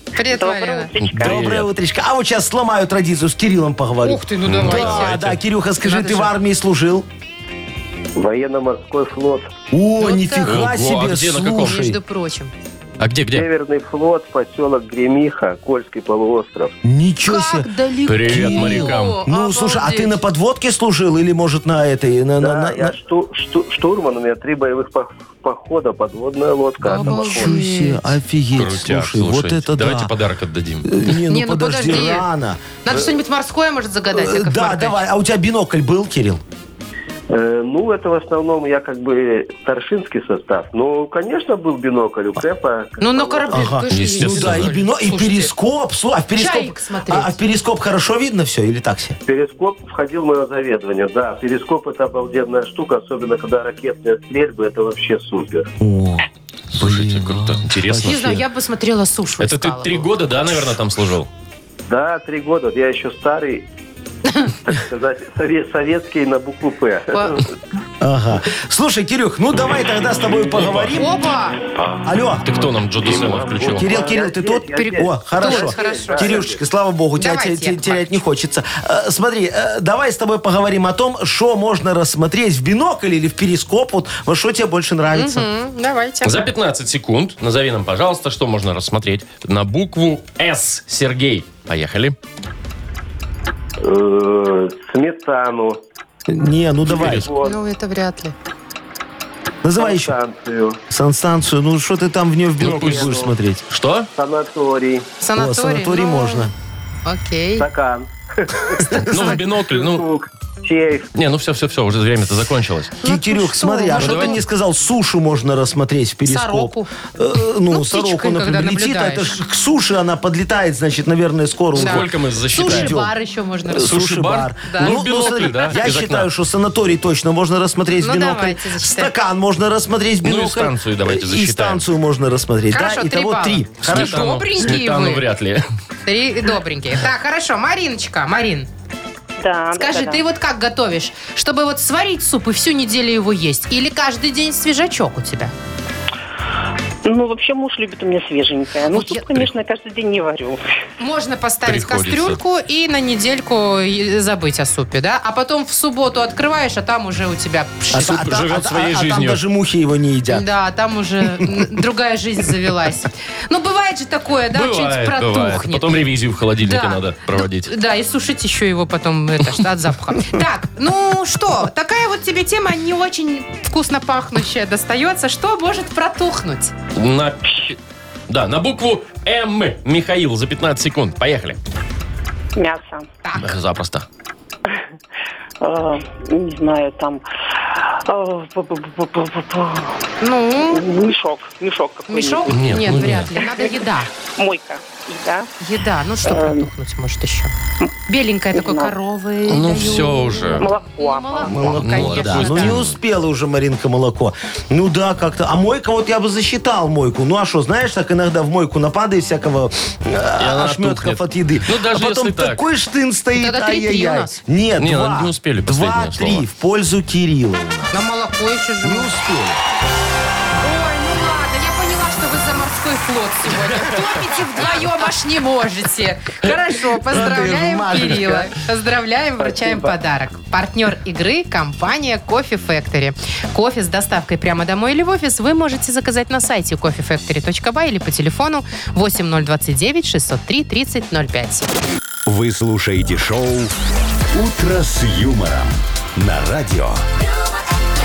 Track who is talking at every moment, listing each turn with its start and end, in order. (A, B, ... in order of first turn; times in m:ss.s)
0:00.2-0:00.9 A
0:00.3-0:01.4 B
0:01.0-0:01.7 C
0:01.1-0:07.1 D
0:04.0-0:05.2 A
0:04.5-0:05.4 C
0:05.8-0:06.3 A
0:08.2-0:09.6 E
0:09.7-0:12.0 D
0:10.0-0:10.6 A
0:10.4-0:11.8 C
0:11.6-0:12.5 A
0:13.0-0:13.5 C
0:13.3-0:16.8 E
0:16.8-0:17.7 D
0:17.3-0:20.2 A
0:18.1-0:19.2 C
0:18.2-0:22.9 D
0:22.4-0:27.6 E
0:26.8-0:28.1 A
0:26.9-0:30.1 D
0:28.6-0:31.0 C
0:30.8-0:32.9 D
0:31.3-0:32.3 A
0:32.8-0:35.0 A
0:34.1-0:36.4 D
0:37.3-0:43.7 E
0:43.0-0:45.5 A
0:43.5-0:49.2 D
0:43.9-0:44.7 C
0:46.4-0:47.4 A
0:49.2-0:55.7 E
0:55.8-0:58.4 D
0:56.8-0:58.3 C
0:58.0-1:00.1 A
0:59.4-1:01.3 C
1:01.9-1:03.7 E
1:04.3-1:04.5 A
1:04.7-1:07.5 E
1:07.1-1:07.4 A
1:08.0-1:11.2 D
1:10.5-1:10.9 C
1:11.0-1:11.6 A
1:11.8-1:14.0 C
1:12.0-1:12.5 D
1:13.0-1:25.5 D
1:13.3-1:16.6 E
1:14.8-1:16.5 A
1:17.2-1:18.2 A
1:25.1-1:26.5 A
1:26.2-1:32.2 C
1:33.8-1:35.8 E
1:36.3-1:37.3 D
1:36.9-1:37.6 E
1:36.9-1:37.3 C
1:37.4-1:38.4 A
1:39.6-1:40.1 D
1:39.8-1:40.8 E
1:40.9-1:43.6 D
1:42.6-1:43.2 C
1:42.6-1:43.3 E
1:43.7-1:44.1 C
1:44.1-1:45.1 E
1:45.2-1:46.5 A
1:45.4-1:46.5 D
1:47.1-1:47.7 A
1:47.6-1:51.1 E
1:48.8-1:49.4 D
1:49.0-1:50.1 C
1:51.2-1:52.9 C
1:53.0-1:54.4 A
1:53.0-2:03.1 D
1:54.0-1:54.4 C
1:56.3-1:56.9 A
1:57.7-1:59.3 A
2:01.7-2:03.0 C
2:01.8-2:04.0 A
2:03.7-2:14.4 D
2:03.8-2:06.3 C
2:04.7-2:05.7 A
2:08.0-2:09.1 A
2:10.2-2:11.8 C
2:12.7-2:15.2 A
2:13.8-2:15.6 C
2:16.1-2:18.7 A
2:19.4-2:20.2 B
2:19.7-2:25.5 A
2:27.0-2:30.6 B
2:31.0-2:38.4 A
2:31.7-2:32.4 C
2:37.9-2:40.5 D
2:37.9-2:39.4 C
2:40.3-2:46.0 A
2:44.5-2:47.7 C
2:46.6-2:56.7 A
2:57.0-2:57.8 C
2:58.3-3:01.6 C
3:02.6-3:03.1 B
3:03.2-3:03.6 A
3:03.4-3:04.1 C
3:05.6-3:10.0 B
3:10.2-3:11.0 A
3:10.7-3:12.8 B
3:12.1-3:14.1 A
3:12.5-3:13.3 C
3:13.4-3:15.5 B
3:15.6-3:17.5 A
3:16.2-3:16.7 B
3:18.1-3:22.8 A
3:18.5-3:18.9 B
3:19.5-3:20.7 C
3:20.6-3:21.6 B
3:21.4-3:37.9 D
3:21.7-3:23.0 C
3:30.4-3:32.6 C
3:33.4-3:34.4 A
3:34.8-3:36.4 C
3:37.9-3:39.1 A
3:38.8-3:39.6 D
3:40.6-4:01.7 A
3:47.1-3:48.5 D
3:49.4-3:49.9 E
4:02.3-4:03.7 F
4:04.3-4:07.0 F